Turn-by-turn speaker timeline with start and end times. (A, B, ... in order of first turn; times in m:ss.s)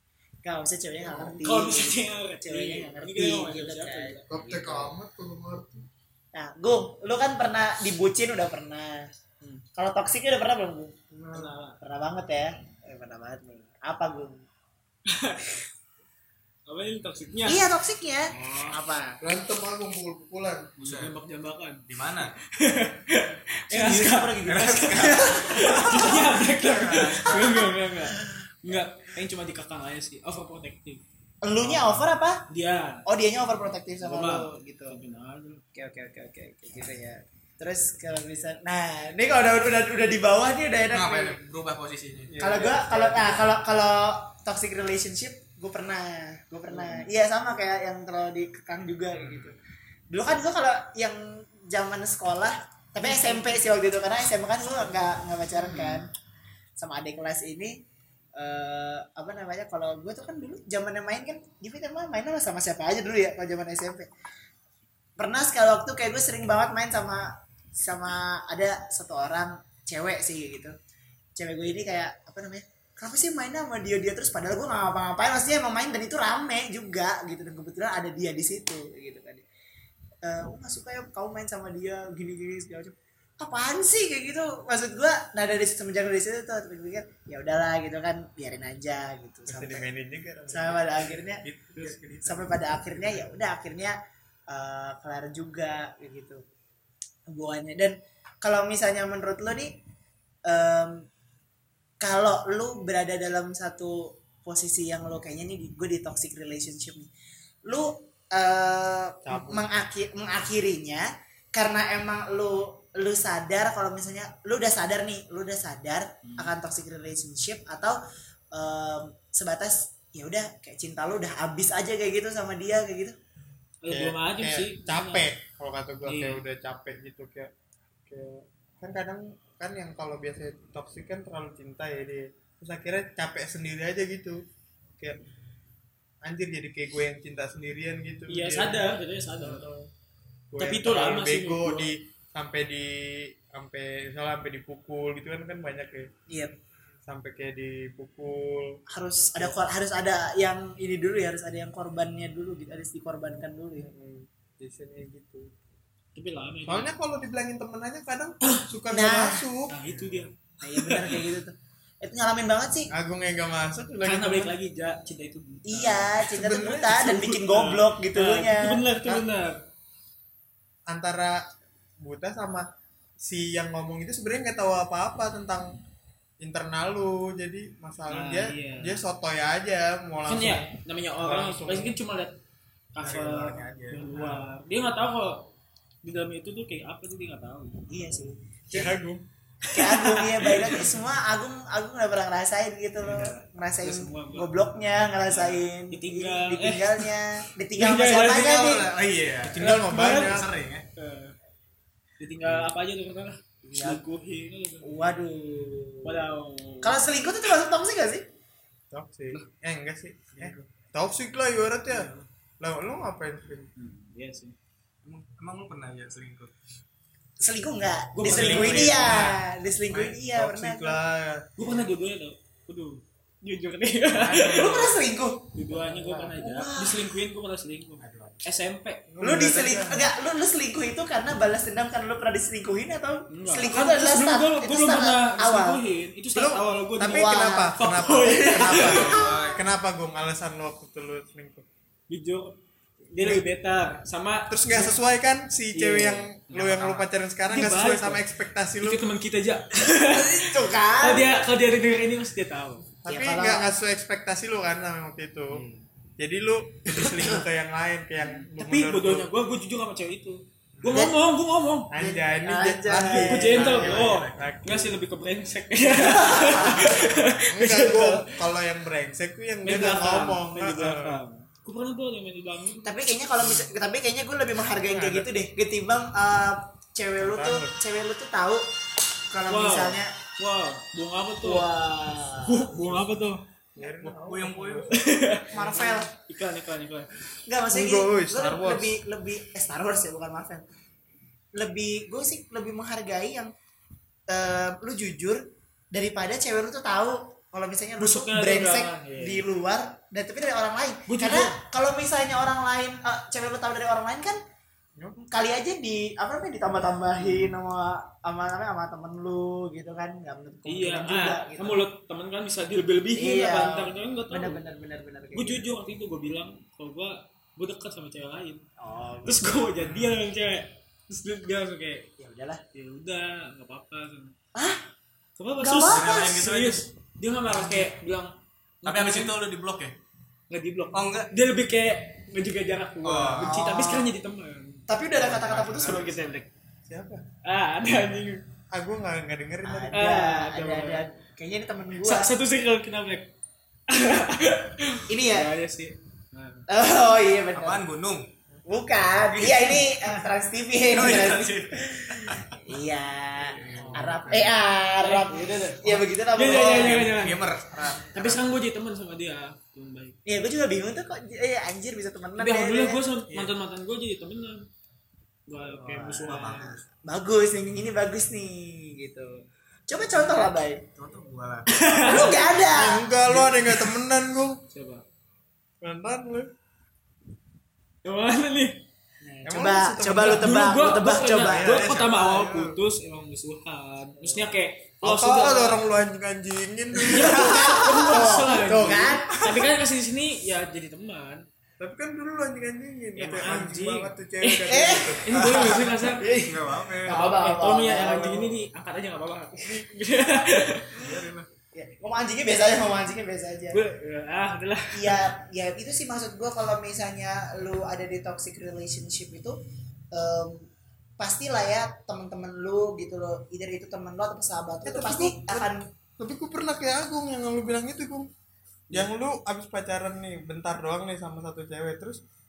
0:00.4-0:04.2 A
0:01.0-0:01.3 B
0:01.4-0:04.9 C
0:04.3-0:05.9 B
0:06.3-0:09.1 A
0:09.6-0:11.0 A
0:11.1-0:11.5 B
0:11.3-0:11.8 C
0:11.8-0:14.4 A
0:15.1-0:15.4 C
0:16.7-0:17.6 C
0:17.4-0:19.2 A
0:18.4-0:18.7 C
0:19.2-0:20.7 B
0:20.8-0:21.1 D
0:20.8-0:21.8 C
0:21.9-0:22.3 D
0:22.5-0:31.0 C
0:23.7-0:25.9 A
0:24.4-0:27.6 D
0:31.4-0:32.4 A
0:32.5-0:33.0 C
0:33.0-0:35.0 A
0:34.0-0:35.6 C
0:35.7-0:41.4 A
0:40.9-0:42.7 D
0:42.3-0:43.4 B
0:42.4-0:49.6 A
0:46.7-0:47.0 C
0:50.1-0:56.1 A
0:53.0-0:53.6 C
0:55.6-0:56.0 C
0:56.8-0:57.8 A
0:58.4-1:04.1 A
1:05.2-1:10.7 A
1:11.4-1:19.4 A
1:20.2-1:29.9 A
1:29.5-1:32.4 B
1:30.5-1:31.4 A
1:32.2-1:34.0 A
1:34.5-1:36.4 A
1:37.3-1:39.8 A
1:40.4-1:41.0 A
1:42.0-1:47.1 A
1:47.7-1:58.0 A
1:49.2-1:49.6 B
1:58.5-2:03.2 A
2:03.8-2:05.2 C
2:03.9-2:07.5 B
2:06.0-2:06.4 C
2:08.0-2:14.4 B
2:16.2-2:18.9 B
2:18.3-2:19.7 C
2:19.4-2:19.8 B
2:20.5-2:26.1 B
2:20.6-2:21.9 C
2:26.3-2:26.5 A
2:27.1-2:28.8 B
2:28.9-2:33.9 A
2:33.8-2:35.5 B
2:36.1-2:36.9 C
2:36.6-2:40.2 B
2:38.9-2:39.5 A
2:39.7-2:41.2 C
2:40.6-2:42.9 A
2:42.9-2:44.5 B
2:44.0-2:49.6 C
2:45.6-2:48.8 A
2:50.9-2:51.4 B
2:52.0-2:52.7 B
2:53.2-2:55.8 B
2:56.4-3:00.7 B
2:58.1-2:59.0 C
3:00.2-3:02.3 C
3:01.2-3:01.9 B
3:02.9-3:05.5 C
3:03.0-3:04.4 D
3:06.0-3:07.9 C
3:07.9-3:08.9 A
3:08.7-3:09.2 B
3:09.6-3:10.9 C
3:09.7-3:18.9 A
3:13.0-3:13.3 D
3:13.8-3:14.5 C
3:15.9-3:17.1 C
3:17.8-3:18.6 C
3:18.1-3:20.8 D
3:19.5-3:20.4 C
3:19.6-3:20.5 B
3:21.0-3:21.4 C
3:22.2-3:24.9 C
3:23.7-3:24.0 A
3:24.8-3:26.2 A
3:26.0-3:27.0 C
3:26.8-3:28.2 A
3:28.9-3:33.7 B
3:30.3-3:30.7 D
3:31.9-3:32.2 C
3:33.8-3:34.6 C
3:35.0-3:36.5 D
3:37.4-3:41.0 A
3:38.1-3:39.3 C
3:38.3-3:39.3 B
3:39.9-3:41.4 B
3:41.6-3:44.7 C
3:44.2-3:44.9 B
3:44.4-3:47.1 A
3:45.5-3:49.0 C
3:48.0-3:48.4 D
3:49.1-3:50.1 B
3:49.2-3:55.8 A
3:53.3-3:59.1 C
3:56.3-4:01.6 B
3:57.0-3:57.8 A
3:58.5-3:59.4 A
3:58.7-3:59.6 D
4:02.1-4:02.6 C
4:03.1-4:05.0 C
4:04.5-4:09.0 B
4:05.7-4:08.2 C
4:06.7-4:07.0 D
4:08.8-4:12.9 C
4:10.1-4:11.3 A
4:13.0-4:15.6 B
4:13.1-4:13.7 A
4:16.2-4:19.3 B
4:18.6-4:21.9 C
4:20.8-4:21.0 B
4:20.9-4:21.2 A
4:21.9-4:24.9 B
4:21.9-4:24.1 A
4:23.2-4:28.3 C
4:23.7-4:24.5 D
4:26.1-4:31.2 B
4:26.2-4:26.8 A
4:29.6-4:32.9 C
4:32.8-4:38.6 A
4:34.8-4:35.3 B
4:37.2-4:37.7 B
4:39.3-4:40.1 A
4:39.5-4:41.6 C
4:41.4-4:43.0 A
4:42.4-4:43.4 C
4:43.8-4:45.0 B
4:44.0-4:45.3 D
4:44.9-4:47.1 C
4:45.5-4:46.1 A
4:47.4-4:50.6 A
4:47.7-4:48.6 B
4:48.3-4:48.9 D
4:51.5-4:53.5 A
4:54.3-4:55.4 A
4:55.9-5:04.4 A
4:58.0-4:59.4 C
5:01.0-5:01.6 C
5:05.2-5:11.8 A
5:10.6-5:14.6 C
5:13.2-5:15.7 A
5:15.3-5:18.6 C
5:18.8-5:19.6 A
5:19.2-5:22.1 C
5:22.2-5:22.6 A
5:22.7-5:24.3 C
5:24.5-5:24.8 A
5:25.4-5:29.3 C
5:25.6-5:26.4 A
5:25.8-5:26.9 D
5:28.8-5:29.9 D
5:30.5-5:34.8 C
5:30.9-5:31.3 D
5:33.0-5:33.5 D
5:33.4-5:34.1 A
5:34.9-5:36.4 A
5:35.2-5:36.2 D
5:36.9-5:37.2 B
5:37.4-5:38.4 C
5:38.7-5:40.1 B
5:39.6-5:42.3 A
5:39.9-5:41.0 C
5:42.0-5:43.3 C
5:43.9-5:46.7 C
5:45.1-5:45.5 A
5:46.7-5:47.8 A
5:47.5-5:48.3 D
5:48.6-5:57.3 A
5:49.3-5:49.8 D
5:50.9-5:52.6 D
5:53.4-5:54.5 D
5:53.8-5:54.1 B
5:55.0-5:57.5 C
5:57.1-5:58.4 D
5:58.1-6:00.2 C
6:00.2-6:03.0 A
6:02.4-6:04.7 C
6:05.5-6:06.7 C
6:05.7-6:06.8 D
6:06.0-6:10.8 A
6:11.0-6:12.2 D
6:11.7-6:12.4 C
6:12.0-6:13.1 A
6:12.7-6:14.6 B
6:13.3-6:13.9 C
6:14.7-6:15.0 C
6:15.8-6:16.5 B
6:18.0-6:18.8 C
6:19.2-6:21.9 A
6:19.4-6:20.7 B
6:20.2-6:25.8 C
6:21.4-6:22.8 B
6:25.0-6:28.3 B
6:27.0-6:31.4 C
6:27.1-6:29.4 A
6:31.8-6:36.0 B
6:33.2-6:36.5 C
6:34.6-6:35.5 A
6:36.3-6:37.2 D
6:37.0-6:38.6 A
6:37.1-6:41.0 C
6:40.9-6:41.4 D
6:41.7-6:43.8 A
6:43.7-6:45.3 C
6:44.9-6:49.6 A
6:50.1-6:50.7 A
6:51.2-6:55.8 A
6:54.8-6:55.7 B
6:56.2-6:58.3 B
6:58.9-7:02.2 B